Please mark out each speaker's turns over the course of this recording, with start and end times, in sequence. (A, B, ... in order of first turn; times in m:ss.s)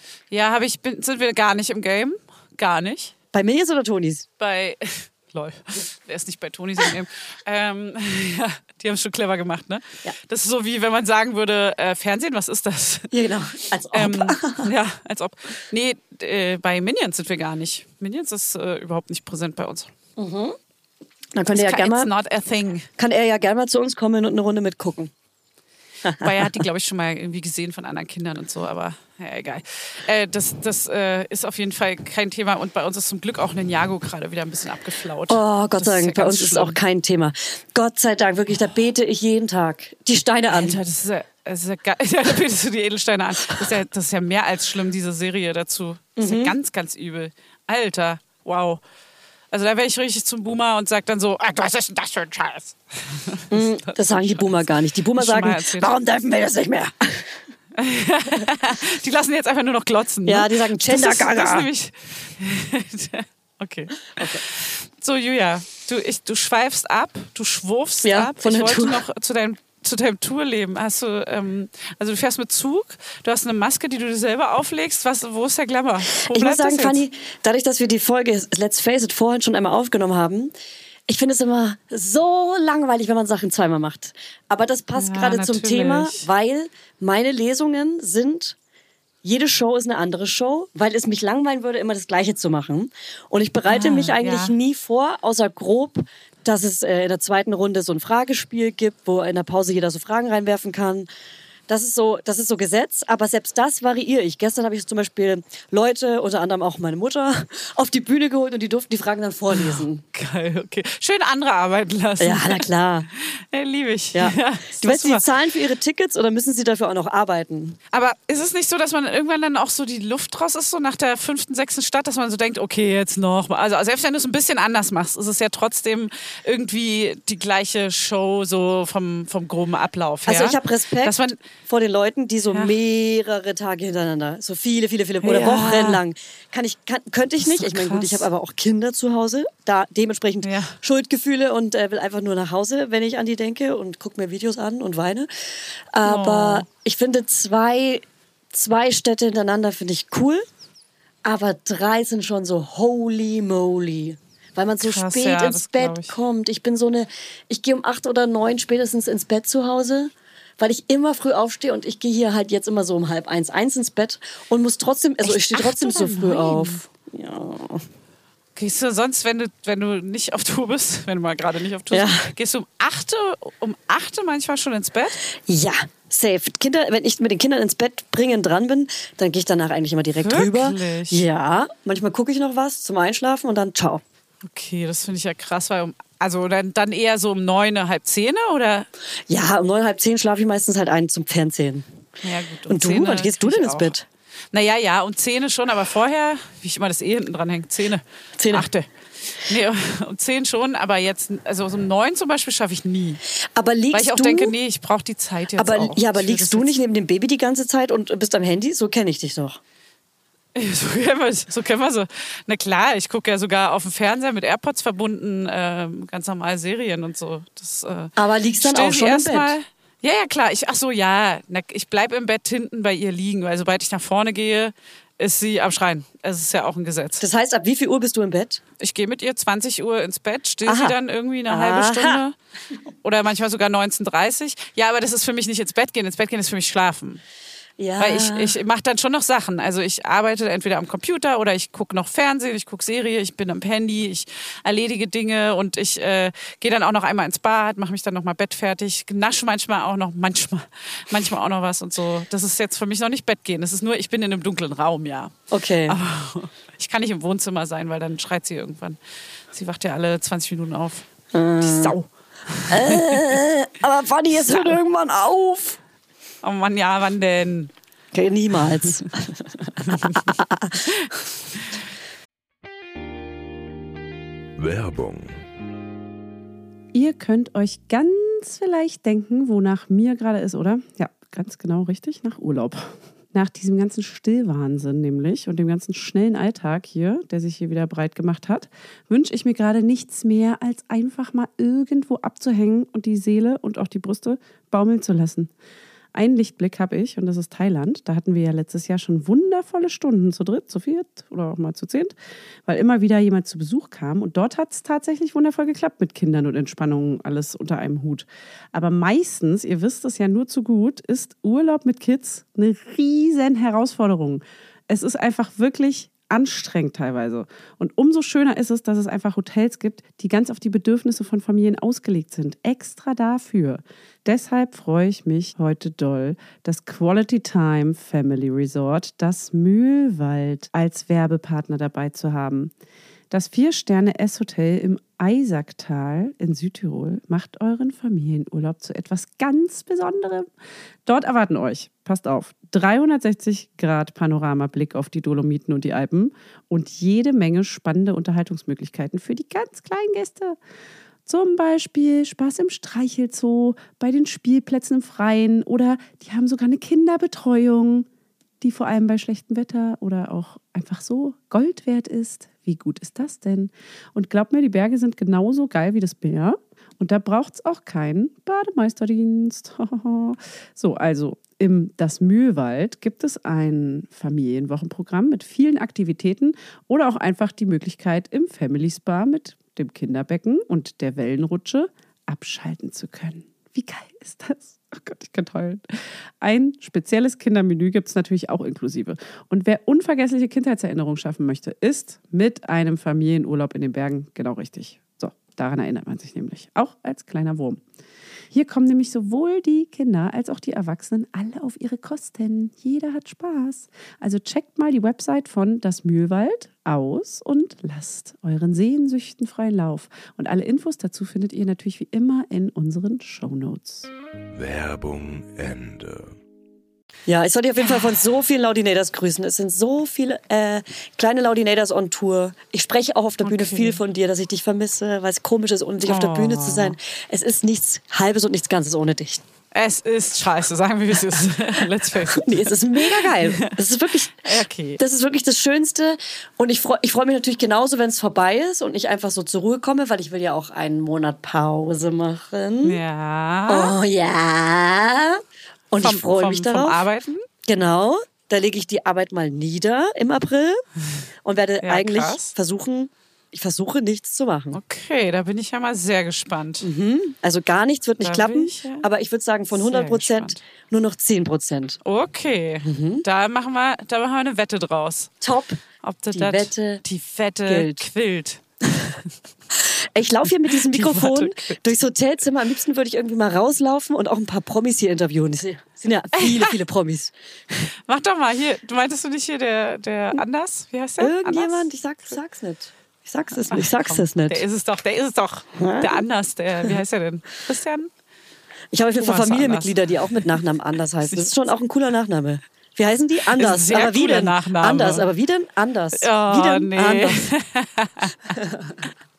0:00.3-0:03.1 A
0:03.3-0:04.3 B
0:04.4-0:13.1 A
0:13.1-0:14.7 B
0:13.9-0:19.9 A
0:20.2-0:20.6 B
0:21.4-0:22.1 B
0:21.5-0:22.9 A
0:23.0-0:25.1 B
0:26.0-0:26.5 B
0:26.2-0:36.8 A
0:35.3-0:40.8 B
0:40.5-0:48.8 A
0:46.2-0:46.6 B
0:49.5-0:55.9 A
0:53.5-0:57.3 B
0:57.8-1:17.0 A
1:00.3-1:01.7 B
1:04.2-1:04.4 B
1:08.0-1:09.0 B
1:16.2-1:20.5 B
1:21.1-1:28.6 B
1:25.0-1:26.3 A
1:29.2-1:41.1 B
1:33.7-1:34.5 A
1:41.7-1:50.0 B
1:49.5-1:52.7 A
1:52.2-1:53.1 B
1:53.3-1:55.2 A
1:54.2-1:57.8 B
1:57.9-2:11.4 A
2:10.3-2:25.3 B
2:15.2-2:16.0 A
2:17.4-2:18.3 A
2:20.4-2:20.8 A
2:25.9-2:30.4 B
2:26.0-2:26.7 A
2:31.2-2:47.8 B
2:34.8-2:36.2 A
2:45.2-2:46.8 A
2:48.6-2:55.2 A
2:51.9-2:52.3 B
2:55.5-3:04.0 B
3:00.2-3:01.2 A
3:04.4-3:08.9 A
3:09.3-3:11.9 B
3:12.2-3:13.9 A
3:12.7-3:14.0 B
3:14.5-3:18.9 A
3:18.4-3:18.7 B
3:19.4-3:23.2 A
3:23.6-3:24.6 B
3:23.9-3:26.8 A
3:25.6-3:29.6 B
3:30.6-3:47.2 A
3:38.2-3:39.6 B
3:47.2-3:48.6 B
3:48.8-3:52.4 A
3:50.7-3:51.0 B
3:51.5-3:52.2 B
3:53.0-3:57.2 A
3:57.8-3:58.6 B
3:58.0-4:15.3 A
4:15.5-4:16.0 B
4:15.9-4:19.0 A
4:19.5-4:21.1 A
4:21.3-4:22.0 B
4:21.6-4:23.4 A
4:22.7-4:25.8 B
4:24.5-4:24.8 A
4:26.4-4:27.7 A
4:28.1-4:30.9 B
4:29.8-4:30.3 A
4:34.6-4:35.4 C
4:36.9-4:55.5 D
4:56.2-5:32.7 D
5:33.3-5:40.5 D
5:41.1-5:50.6 D
5:51.3-5:58.1 D
5:58.6-6:37.8 D
6:38.5-6:54.1 D
6:54.6-6:56.4 C
6:57.3-7:09.4 B
7:03.4-7:04.0 A
7:06.0-7:07.0 A
7:09.7-7:13.8 A
7:12.3-7:14.5 B
7:14.4-7:15.0 A
7:15.0-7:23.0 B
7:22.8-7:24.0 A
7:23.7-7:27.0 B
7:26.0-7:27.4 A
7:27.7-7:30.8 B
7:31.4-7:34.8 B
7:31.8-7:32.5 A
7:34.7-7:36.9 A
7:36.8-7:42.0 B
7:38.2-7:39.1 A
7:39.7-7:40.6 A
7:42.0-7:45.3 A
7:42.8-7:43.2 B
7:45.4-7:45.8 B
7:46.0-7:48.6 A
7:46.3-7:47.0 B
7:47.7-7:48.1 B
7:49.8-7:57.3 B
7:50.7-7:51.9 A
7:56.4-7:56.7 A
7:58.1-8:02.4 A
8:01.2-8:04.6 B
8:03.6-8:08.1 A
8:05.8-8:06.2 B
8:08.9-8:17.5 B
8:09.2-8:10.5 A
8:11.2-8:11.7 A
8:13.6-8:15.3 A
8:16.2-8:18.4 A
8:18.6-8:18.9 B